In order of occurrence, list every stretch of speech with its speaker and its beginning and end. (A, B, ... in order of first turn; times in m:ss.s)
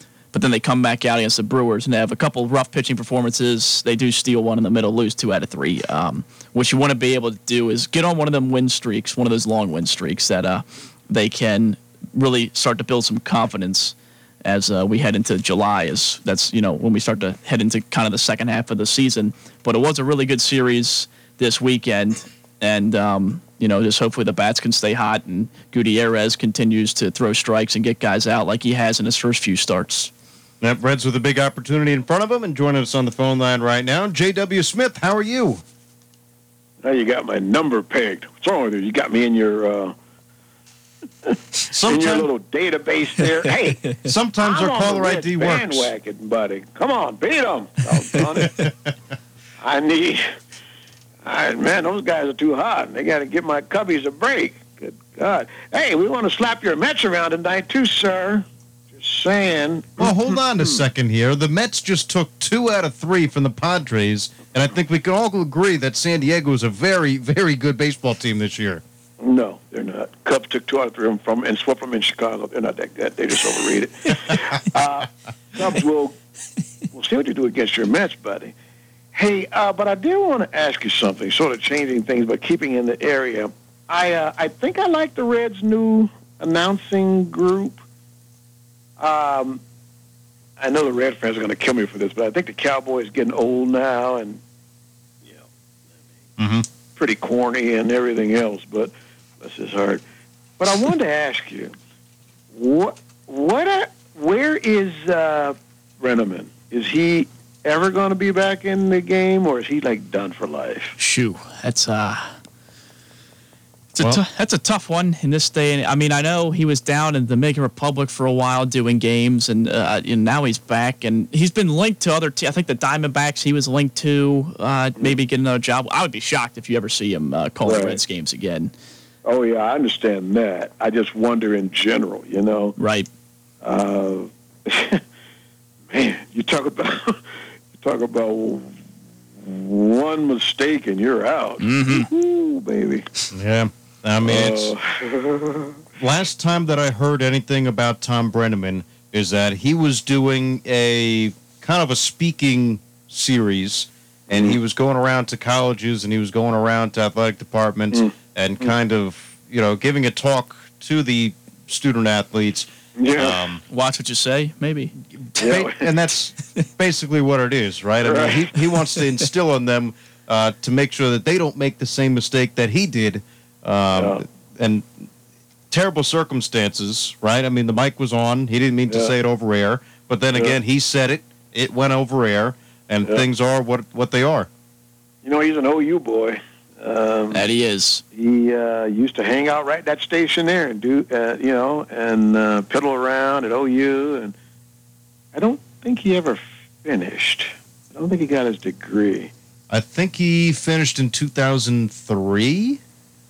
0:00.3-0:30.1 A
0:30.6-0:35.6 B
0:36.8-0:39.9 C
0:41.2-0:48.7 C
0:41.7-0:42.3 B
0:44.0-0:45.9 B
0:49.6-0:50.2 C
0:51.2-1:00.2 C
1:00.0-1:08.8 B
1:09.2-1:16.2 C
1:16.9-1:18.5 C
1:19.1-1:27.8 C
1:29.0-1:29.6 C
1:30.6-1:34.4 C
1:36.4-1:36.6 B
1:36.9-1:40.0 C
1:40.6-1:41.7 C
1:42.5-1:50.9 C
1:51.0-1:52.4 A
1:53.9-2:08.7 A
2:07.6-2:08.0 C
2:09.2-2:12.7 C
2:12.8-2:13.1 A
2:13.6-2:15.0 C
2:15.9-2:17.2 C
2:17.8-2:18.7 C
2:19.4-2:23.0 C
2:21.6-2:22.1 A
2:23.3-2:24.7 B
2:24.2-2:25.8 C
2:26.0-2:43.6 B
2:43.0-2:43.4 C
2:43.7-2:44.9 A
2:45.2-2:54.9 B
2:45.4-2:45.9 C
2:48.0-2:48.5 C
2:53.9-2:54.2 C
2:55.7-3:04.5 B
2:58.9-2:59.1 C
3:05.2-3:07.5 C
3:07.3-3:08.0 A
3:08.1-3:14.3 C
3:15.3-3:19.3 C
3:19.7-3:22.8 B